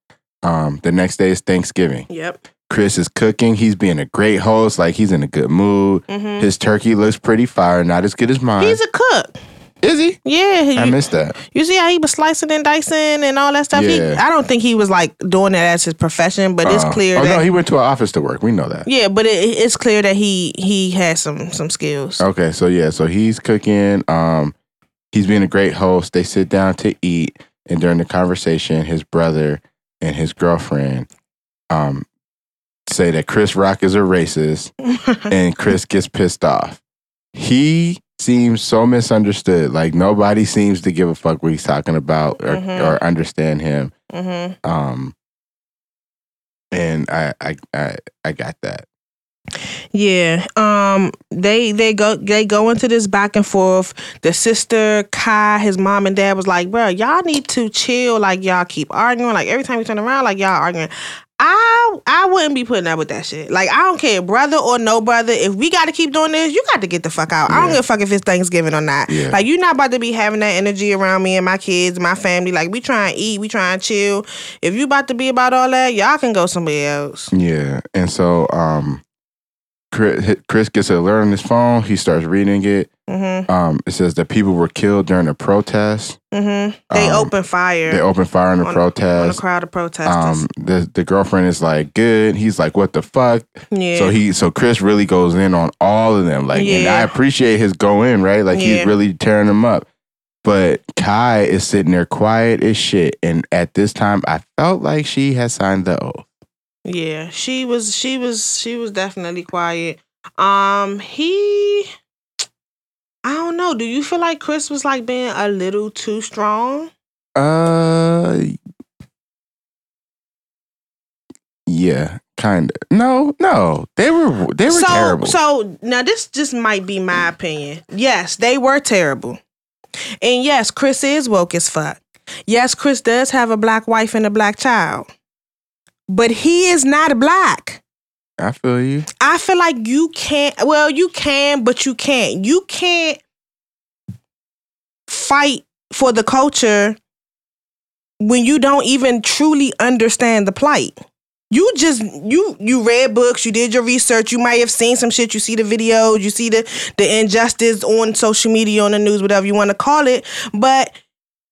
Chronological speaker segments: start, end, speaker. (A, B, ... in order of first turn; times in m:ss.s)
0:00.4-0:02.1 A
0:02.1-0:02.4 B
0:02.7-0:08.8 A
0:06.1-0:06.5 B
0:08.6-0:09.3 B
0:09.8-0:10.2 A
0:10.2-0:17.4 B
0:10.8-0:11.4 A
0:13.7-0:14.2 A
0:16.6-0:18.9 A
0:18.8-0:22.2 B
0:22.2-0:24.5 A
0:25.1-0:31.1 A
0:31.7-0:32.0 A
0:32.9-0:34.7 A
0:34.8-0:35.3 B
0:35.3-0:36.8 A
0:37.3-0:43.9 A
0:42.4-0:43.0 B
0:44.1-0:44.6 B
0:44.6-0:45.1 A
0:46.7-0:48.8 A
0:49.9-1:17.3 B
1:07.5-1:07.8 A
1:09.1-1:09.4 A
1:17.3-1:19.0 A
1:19.9-1:22.9 A
1:23.1-1:23.5 B
1:23.5-1:26.2 A
1:26.3-1:28.0 B
1:26.9-1:27.3 A
1:27.9-1:29.4 A
1:28.6-1:30.4 B
1:30.0-1:39.9 A
1:33.7-1:34.2 B
1:36.5-1:37.1 B
1:38.5-1:38.9 B
1:40.4-1:46.2 A
1:46.8-1:51.9 B
1:53.2-1:56.9 B
1:57.4-1:58.5 A
2:01.7-2:05.4 A
2:04.7-2:09.4 B
2:10.2-2:15.1 B
2:16.1-2:17.8 B
2:18.4-2:19.1 A
2:19.2-2:23.2 B
2:25.1-2:27.0 B
2:28.2-2:30.9 B
2:31.5-2:41.0 B